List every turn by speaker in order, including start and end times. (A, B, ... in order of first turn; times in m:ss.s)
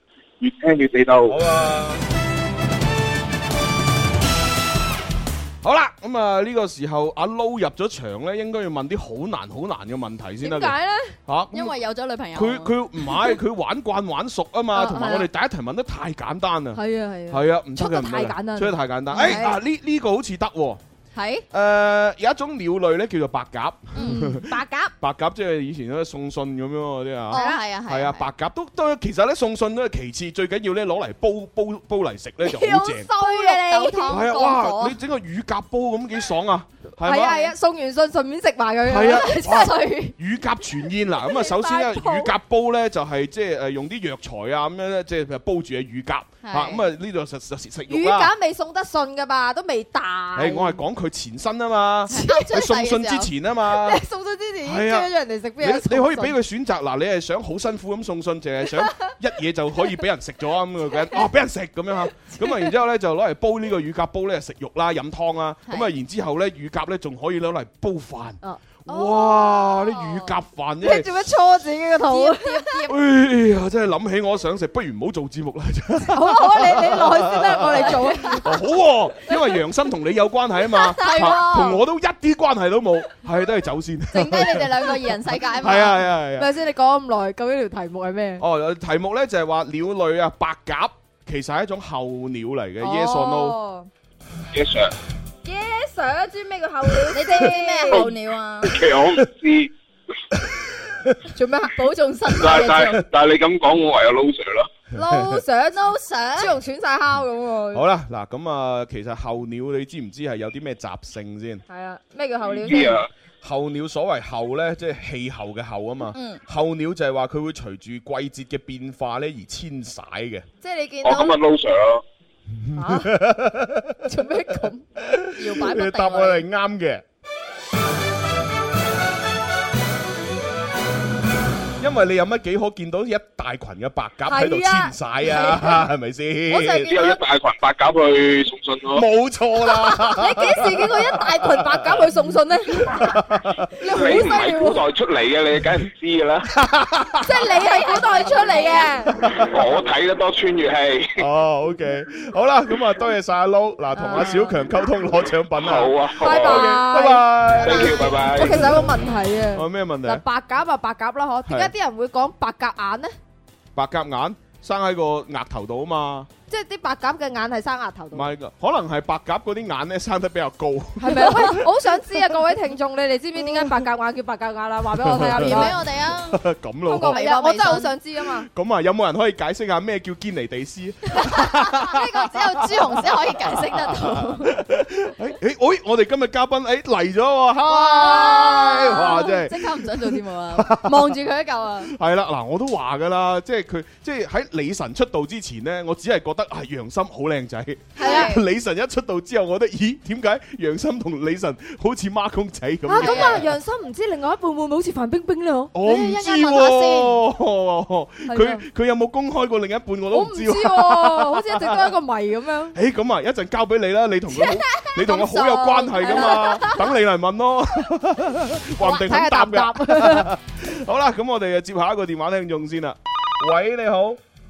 0:00.4-0:01.3 A
0:01.3-0:02.0 B
0:05.6-0:10.8 B
0:10.4-0:11.1 C
0:11.3-0:11.8 B
0:11.5-0:12.7 D
0:12.3-0:20.8 B
0:14.7-0:15.3 C
0:16.8-0:19.6 C
0:19.1-0:19.5 D
0:21.1-0:21.4 D
0:21.5-0:33.1 B
0:24.0-0:24.2 D
0:24.0-0:24.9 C
0:27.3-0:28.2 D
0:27.3-0:27.6 C
0:32.4-0:34.2 C
0:33.2-0:35.0 D
0:34.1-0:37.4 B
0:37.0-0:39.8 C
0:37.1-0:37.5 D
0:38.9-0:48.3 B
0:39.3-0:40.1 D
0:41.2-0:42.3 C
0:46.4-0:46.9 D
0:47.9-0:50.8 C
0:50.3-0:54.0 B
0:52.1-0:53.3 D
0:53.7-0:56.4 C
0:54.6-1:11.1 B
1:02.4-1:02.7 C
1:08.9-1:10.3 D
1:10.8-1:12.9 C
1:12.1-1:12.9 D
1:12.9-1:25.0 B
1:16.1-1:18.5 C
1:17.9-1:18.4 D
1:20.8-1:21.8 D
1:21.0-1:21.4 C
1:24.1-1:26.0 D
1:25.6-1:26.5 B
1:26.4-1:28.4 C
1:28.4-1:33.6 B
1:32.8-1:33.9 C
1:34.5-1:34.9 A
1:35.4-1:38.0 C
1:37.1-1:38.8 D
1:38.6-1:39.7 A
1:41.3-1:43.0 C
1:42.3-1:42.9 D
1:42.4-1:44.7 A
1:44.9-1:45.8 C
1:45.1-1:45.4 B
1:45.7-1:46.5 D
1:46.4-1:47.8 C
1:47.7-1:51.6 B
1:51.7-1:53.0 C
1:52.6-1:53.1 A
1:53.4-2:00.4 B
1:56.1-1:56.4 D
2:00.6-2:01.4 C
2:01.0-2:02.0 A
2:02.7-2:04.0 B
2:02.8-2:03.2 C
2:04.0-2:04.8 C
2:05.0-2:07.0 B
2:05.4-2:06.4 D
2:11.8-2:17.0 B
2:14.3-2:15.8 C
2:16.5-2:17.2 D
2:16.8-2:19.0 A
2:18.9-2:22.1 B
2:19.8-2:23.1 C
2:22.9-2:23.7 B
2:23.8-2:24.8 C
2:23.8-2:26.5 A
2:26.5-2:27.5 B
2:27.2-2:29.1 C
2:27.6-2:28.9 D
2:29.1-2:29.6 B
2:29.4-2:31.2 A
2:31.2-2:38.8 B
2:33.9-2:34.5 C
2:35.6-2:36.8 A
2:36.2-2:37.3 C
2:37.6-2:38.6 A
2:37.7-2:38.2 D
2:38.2-2:43.1 C
2:39.5-2:40.2 B
2:41.4-2:41.7 B
2:43.8-2:46.3 B
2:46.5-2:48.3 C
2:48.1-2:51.7 B
2:51.0-2:55.7 C
2:55.0-2:57.2 B
2:55.2-2:56.4 D
2:56.9-2:58.5 C
2:57.0-2:57.9 D
2:58.5-3:09.9 B
3:01.2-3:04.6 D
3:07.7-3:11.9 D
3:07.8-3:09.4 C
3:10.5-3:11.2 B
3:11.9-3:23.5 B
3:18.0-3:18.4 D
3:18.0-3:18.3 C
3:22.9-3:25.8 C
3:22.9-3:23.4 D
3:25.7-3:31.9 B
3:25.8-3:27.2 D
3:28.3-3:28.6 C
3:30.1-3:32.8 C
3:32.7-3:44.2 B
3:34.4-3:34.9 C
3:35.0-3:36.6 D
3:36.0-3:36.8 C
3:38.8-3:40.3 C